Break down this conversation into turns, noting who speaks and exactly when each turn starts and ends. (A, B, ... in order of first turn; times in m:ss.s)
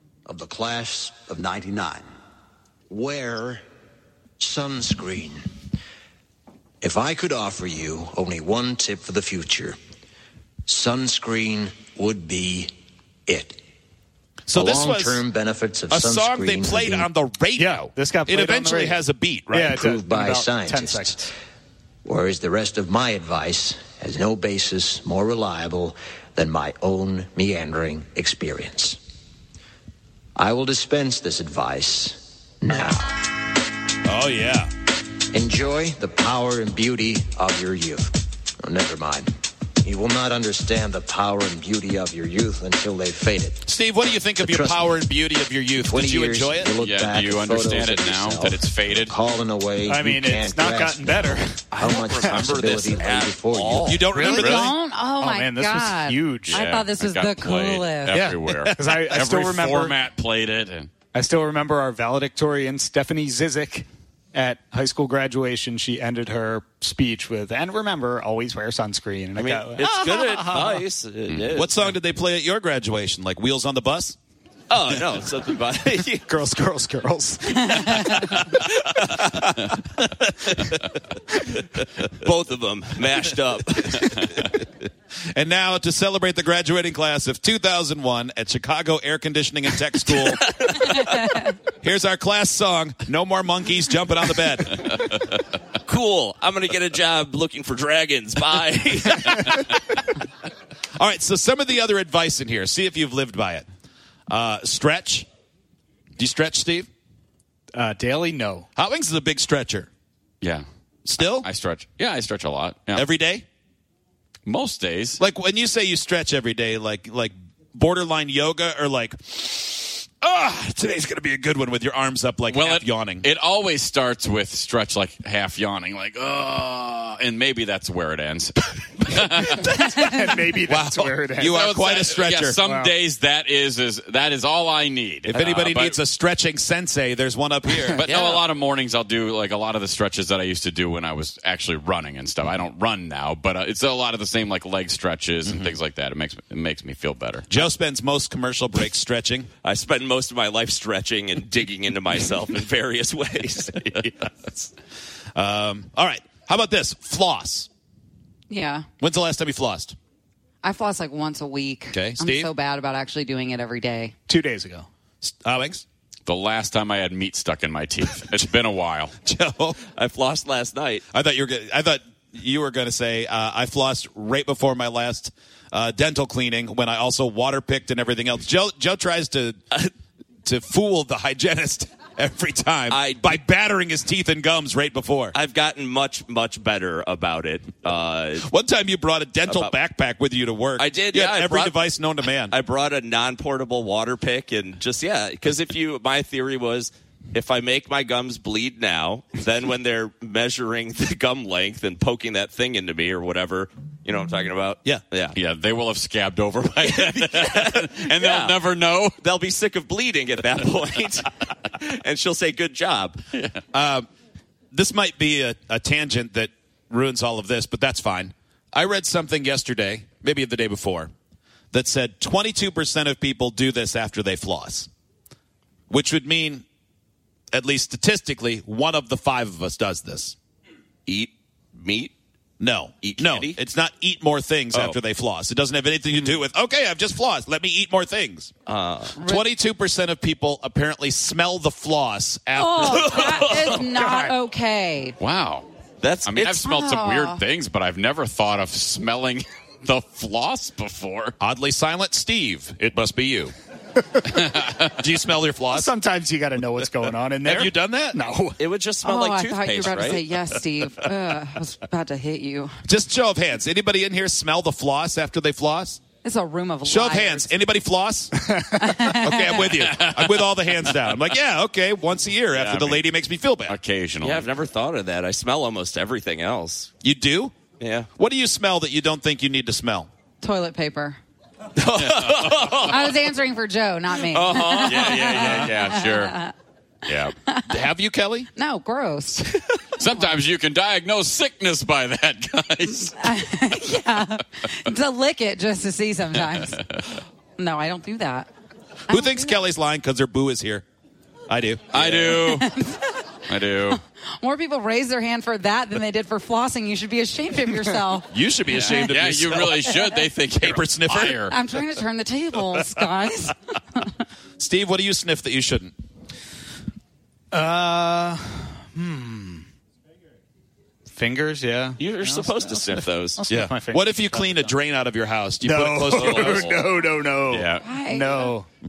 0:00.3-0:02.0 A
0:02.9-0:03.6 A
0:04.4-0:05.4 A
0:06.8-0:09.8 A
0:10.7-0:12.7 A
0:13.3-0:13.6 A
0:14.5-0:15.2 B
0:14.5-0:17.1 A
0:15.9-0:19.8 B
0:17.6-0:21.3 C
0:19.7-0:21.3 A
0:22.0-0:29.0 A
0:30.4-0:33.2 A
0:34.0-0:34.7 B
0:35.3-0:38.1 A
0:38.6-0:39.3 A
0:39.8-0:43.7 A
0:43.6-0:46.8 B
0:44.4-0:44.9 A
0:45.8-0:54.0 A
0:46.8-0:49.2 D
0:49.8-0:52.4 C
0:51.8-0:54.7 E
0:53.8-0:54.7 B
0:54.0-0:54.6 C
0:54.4-0:58.3 F
0:55.2-0:56.6 C
0:56.5-1:00.9 D
0:58.1-1:00.0 C
1:01.1-1:10.8 C
1:09.4-1:11.9 E
1:11.5-1:14.2 B
1:14.7-1:16.1 E
1:16.0-1:18.5 C
1:17.9-1:19.5 E
1:21.6-1:24.1 E
1:25.4-1:30.4 B
1:30.1-1:31.5 E
1:31.8-1:34.9 B
1:34.8-1:35.2 E
1:35.8-1:39.7 E
1:41.0-1:43.7 B
1:44.3-1:45.3 B
1:46.2-1:46.9 B
1:47.7-1:48.7 C
1:48.8-1:49.9 B
1:51.1-1:51.5 B
1:51.2-1:53.0 D
1:52.9-1:53.4 B
1:54.5-1:55.2 D
1:55.2-2:03.3 B
2:02.5-2:10.4 D
2:09.4-2:11.6 C
2:10.7-2:12.6 B
2:11.5-2:16.0 D
2:12.6-2:12.9 C
2:15.3-2:18.0 B
2:18.0-2:27.5 D
2:18.1-2:18.4 E
2:27.5-2:29.5 B
2:29.6-2:34.6 E
2:35.4-2:37.7 B
2:38.5-2:38.9 F
2:39.0-2:40.0 B
2:40.6-2:44.2 F
2:41.9-2:42.5 B
2:44.3-2:44.9 C
2:45.2-2:45.8 B
2:46.3-2:49.1 D
2:49.2-2:49.8 B
2:50.0-2:51.0 E
2:51.1-2:59.6 B
3:00.4-3:05.4 B
3:02.9-3:03.4 E
3:05.3-3:08.5 E
3:08.4-3:12.6 B
3:09.5-3:09.8 E
3:10.8-3:25.4 E
3:25.4-3:29.2 D
3:26.8-3:28.6 E
3:29.2-3:33.2 E
3:33.3-3:33.6 D
3:33.7-3:34.1 B
3:34.7-3:41.1 B
3:41.7-3:44.9 B
3:45.9-3:46.6 B
3:47.5-3:50.4 B
3:51.1-3:52.1 E
3:52.6-3:58.5 B
3:53.0-3:53.6 E
3:54.7-3:55.0 E
3:58.7-3:59.2 E
3:59.2-3:59.5 F
3:59.2-4:03.7 B
4:02.6-4:05.2 F
4:02.9-4:03.9 E
4:04.0-4:04.3 C
4:05.2-4:05.7 D
4:06.0-4:06.9 E
4:06.2-4:11.4 D
4:06.6-4:07.4 F
4:11.4-4:13.5 B
4:14.3-4:14.8 D
4:14.9-4:15.9 B
4:15.7-4:18.6 C
4:17.5-4:18.2 B
4:18.6-4:20.2 E
4:19.0-4:22.7 F
4:22.9-4:26.0 B
4:26.2-4:27.5 F
4:26.9-4:28.5 B
4:28.4-4:29.0 C
4:28.8-4:29.6 F
4:29.1-4:33.8 B
4:29.9-4:31.1 D
4:32.5-4:33.0 D
4:33.7-4:34.5 D
4:34.2-4:36.9 E
4:37.0-4:37.6 B
4:37.8-4:38.1 E
4:38.2-4:40.1 B
4:40.4-4:41.2 F
4:41.8-4:43.2 E
4:42.0-4:42.6 D
4:42.7-4:46.5 F
4:44.3-4:45.8 E
4:45.1-4:46.4 D
4:47.1-4:47.4 D
4:47.7-4:48.5 B
4:48.6-4:49.5 F
4:50.0-4:53.2 D
4:53.2-4:56.8 F
4:57.6-4:58.5 F
4:59.1-4:59.6 F
4:59.1-5:00.8 B
5:01.5-5:02.1 B
5:01.9-5:02.8 D
5:02.4-5:03.3 F
5:03.5-5:04.0 D
5:04.4-5:09.1 F
5:08.3-5:09.9 B
5:08.8-5:11.6 D
5:10.6-5:11.4 B
5:11.4-5:14.1 F
5:14.6-5:15.9 B
5:17.5-5:19.7 C
5:21.1-5:24.6 C
5:22.0-5:23.5 E
5:23.5-5:26.7 B
5:25.6-5:28.7 C
5:26.2-5:26.9 E
5:27.5-5:27.8 D
5:27.8-5:28.5 F